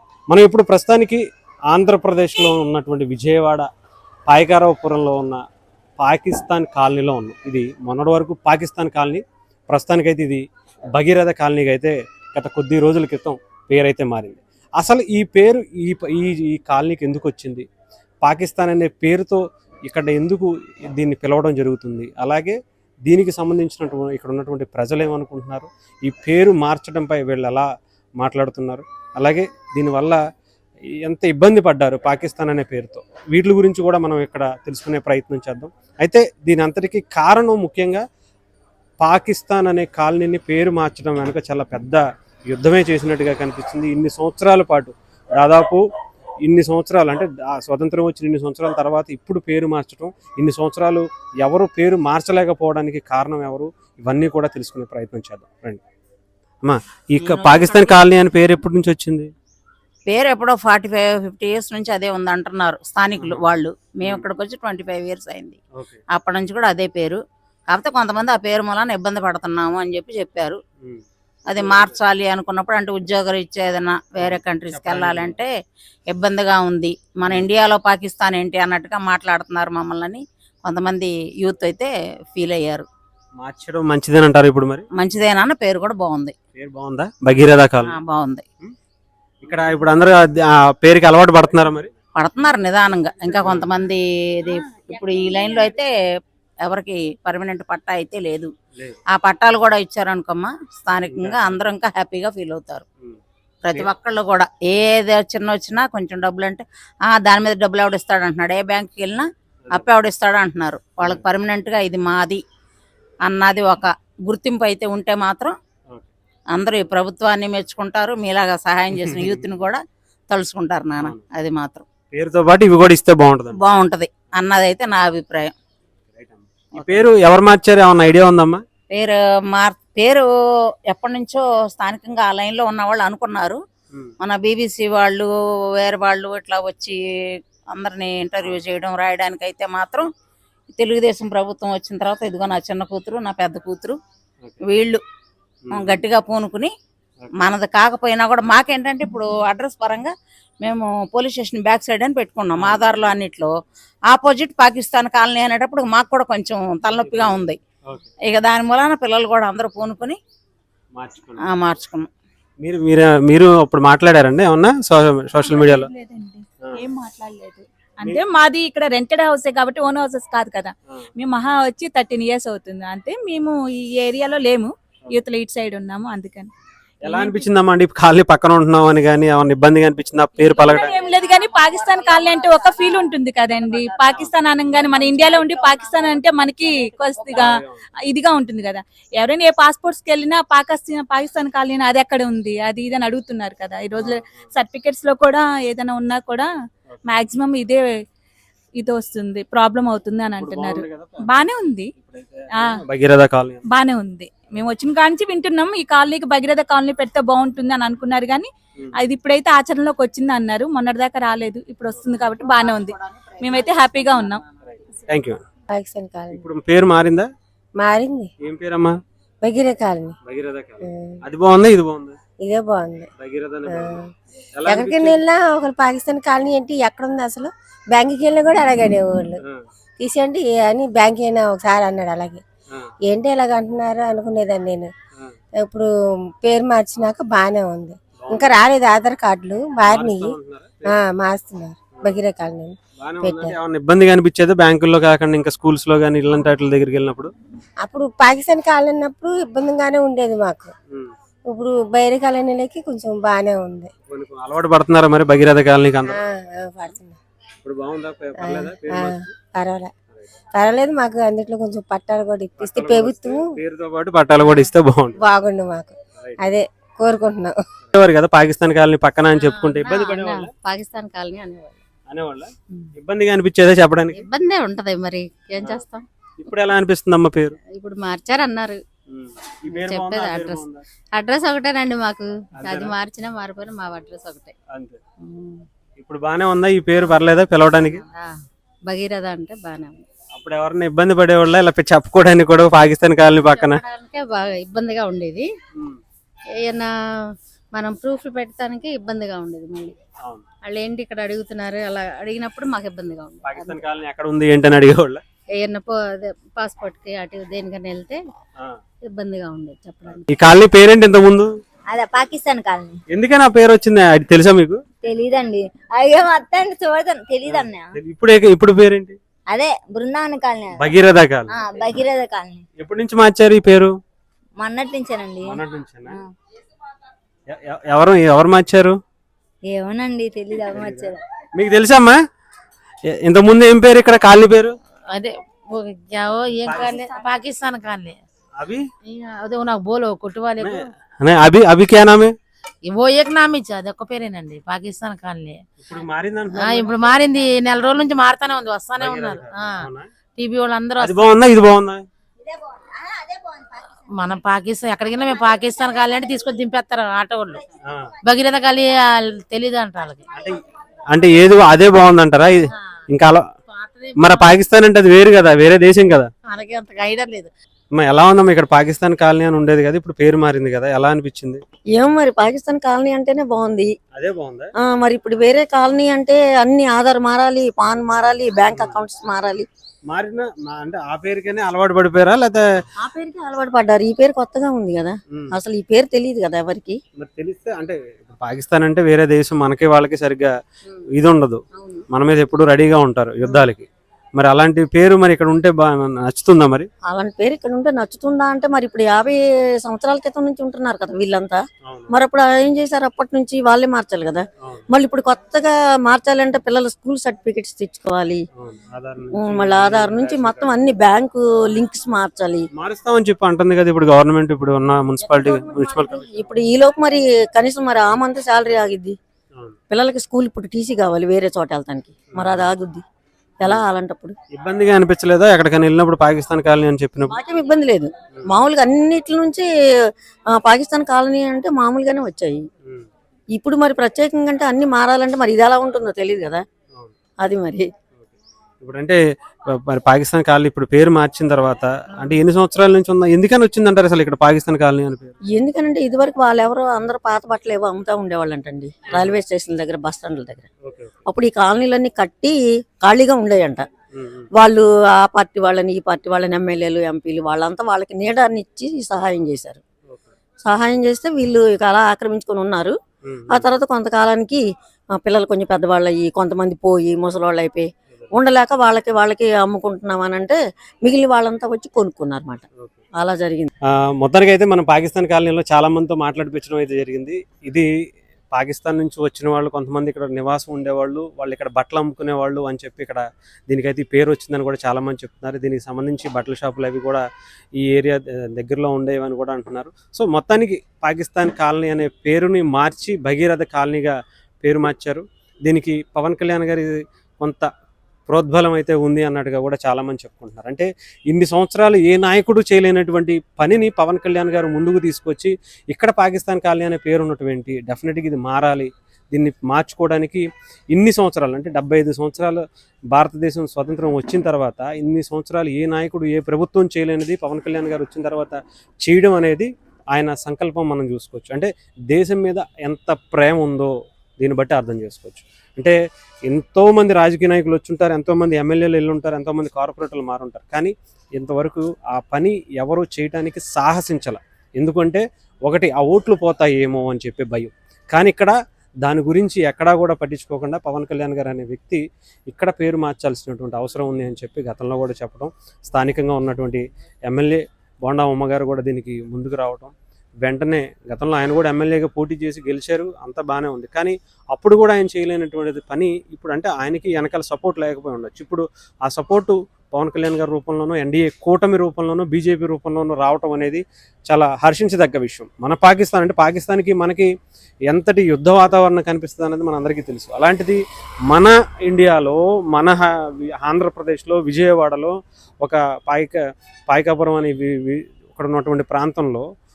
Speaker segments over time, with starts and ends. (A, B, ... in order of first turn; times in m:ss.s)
0:00.3-0:03.7 A
0:04.3-0:05.4 A
0:06.0-0:17.6 A
0:18.2-0:27.6 A
0:28.2-0:30.2 A
0:31.0-0:38.0 A
0:39.0-0:45.8 A
0:46.4-0:55.8 A
0:56.6-0:59.3 A
0:57.2-0:57.7 B
1:00.1-1:05.6 B
1:03.2-1:03.4 A
1:05.7-1:06.0 A
1:06.1-1:07.2 B
1:07.7-1:10.6 B
1:11.5-1:15.5 B
1:11.6-1:12.0 A
1:14.2-1:15.4 A
1:16.1-1:22.8 B
1:23.4-1:24.8 A
1:25.0-1:26.3 B
1:26.5-1:28.0 A
1:27.8-1:28.4 B
1:29.4-1:31.9 A
1:32.2-1:35.9 B
1:33.4-1:33.7 A
1:36.6-1:38.5 B
1:39.1-1:42.8 B
1:41.1-1:41.6 A
1:43.6-1:52.4 B
1:53.2-1:55.5 B
1:56.5-2:01.8 B
1:59.0-1:59.4 A
2:02.1-2:03.6 A
2:03.6-2:05.5 B
2:06.1-2:08.6 A
2:06.7-2:07.1 B
2:08.9-2:10.3 B
2:10.9-2:13.6 B
2:14.2-2:17.0 B
2:17.7-2:20.1 B
2:20.8-2:24.0 B
2:24.7-2:25.0 B
2:25.6-2:26.0 A
2:25.7-2:26.7 B
2:27.4-2:30.1 B
2:30.6-2:33.5 B
2:34.1-2:37.6 B
2:37.0-2:38.1 A
2:38.3-2:40.2 B
2:40.9-2:41.4 A
2:41.5-2:42.1 B
2:42.6-2:45.9 A
2:45.4-2:56.5 C
2:57.0-3:01.0 A
2:57.0-2:57.5 C
3:00.4-3:07.5 C
3:07.3-3:07.8 A
3:08.0-3:16.5 C
3:14.0-3:14.4 A
3:17.0-3:18.0 C
3:18.8-3:21.9 C
3:20.4-3:21.4 A
3:22.0-3:23.6 A
3:23.7-3:34.4 C
3:34.7-3:35.4 A
3:35.7-3:36.4 D
3:36.3-3:37.3 A
3:37.8-3:38.3 D
3:38.4-3:39.0 A
3:39.4-3:40.1 D
3:40.2-3:42.2 A
3:40.8-3:41.2 D
3:42.4-3:43.1 D
3:43.2-3:44.0 A
3:43.7-3:44.1 D
3:44.5-3:45.2 A
3:44.6-3:49.4 D
3:50.0-3:52.4 D
3:53.1-3:54.9 D
3:55.6-3:55.9 D
3:56.4-4:00.4 D
3:58.2-3:58.6 A
3:59.8-4:01.0 A
4:00.9-4:03.6 D
4:03.0-4:07.3 A
4:07.8-4:10.7 D
4:11.5-4:13.9 D
4:14.1-4:16.2 A
4:16.1-4:17.2 D
4:17.6-4:19.3 A
4:18.4-4:19.9 D
4:20.5-4:23.4 D
4:22.6-4:25.2 A
4:25.2-4:27.6 D
4:27.9-4:30.5 A
4:29.4-4:31.8 E
4:32.1-4:34.2 A
4:34.1-4:36.0 E
4:36.4-4:37.6 A
4:37.7-4:38.8 E
4:39.1-4:40.8 A
4:39.6-4:40.6 E
4:41.2-4:44.5 E
4:42.6-4:43.0 A
4:44.7-4:45.0 A
4:45.2-4:45.6 E
4:46.0-4:48.0 A
4:47.7-4:48.4 E
4:48.9-4:50.0 E
4:50.4-4:53.8 A
4:53.4-4:55.5 E
4:55.8-4:56.0 A
4:56.6-4:56.9 E
4:57.7-4:59.9 E
5:00.6-5:03.8 E
5:03.4-5:05.2 A
5:05.5-5:08.2 E
5:09.1-5:10.3 E
5:10.1-5:11.5 A
5:11.9-5:13.0 F
5:13.1-5:14.8 A
5:15.0-5:17.8 F
5:17.4-5:19.2 A
5:19.5-5:20.8 F
5:20.8-5:21.5 A
5:21.5-5:22.6 F
5:22.8-5:23.9 A
5:24.6-5:26.1 F
5:25.4-5:26.2 A
5:27.5-5:29.0 A
5:29.7-5:31.2 F
5:30.7-5:32.2 A
5:33.1-5:34.7 A
5:35.1-5:38.2 G
5:36.7-5:37.0 A
5:38.6-5:38.8 A
5:39.0-5:40.9 G
5:40.6-5:42.3 A
5:42.9-5:45.6 G
5:45.8-5:46.9 A
5:46.5-5:51.3 G
5:49.0-5:50.1 A
5:51.0-5:52.0 A
5:53.2-5:53.6 F
5:54.1-5:57.6 G
5:57.8-5:58.1 A
5:58.2-6:00.2 G
6:00.3-6:00.6 A
6:01.1-6:03.4 A
6:03.7-6:04.5 G
6:04.2-6:06.3 A
6:06.4-6:07.5 G
6:07.9-6:11.6 A
6:12.0-6:13.9 H
6:14.1-6:14.7 A
6:14.8-6:19.7 H
6:18.7-6:19.0 A
6:20.1-6:22.6 A
6:23.0-6:27.0 H
6:27.2-6:30.5 A
6:31.1-6:36.9 A
6:37.1-6:48.4 H
6:41.8-6:42.1 A
6:44.6-6:44.9 A
6:48.6-6:50.8 A
6:49.4-6:52.6 H
6:52.7-6:56.5 A
6:55.2-6:59.1 H
6:59.9-7:03.0 H
7:02.3-7:02.7 A
7:03.6-7:04.3 H
7:04.5-7:07.4 A
7:07.3-7:09.6 H
7:08.3-7:08.6 A
7:10.5-7:12.6 H
7:13.5-7:16.6 H
7:17.4-7:17.9 H
7:18.2-7:25.3 A
7:25.5-7:30.7 H
7:29.1-7:29.4 A
7:30.8-7:31.2 A
7:31.3-7:33.8 H
7:34.1-7:34.5 A
7:34.6-7:39.8 H
7:40.6-7:42.9 H
7:43.2-7:43.8 A
7:43.5-7:44.6 H
7:45.1-7:52.6 H
7:52.8-7:53.0 A
7:53.2-7:53.7 H
7:54.2-7:57.9 A
7:58.5-8:07.2 A
8:07.8-8:17.7 A
8:18.3-8:45.9 A
8:46.4-9:27.3 A
9:27.9-9:39.4 A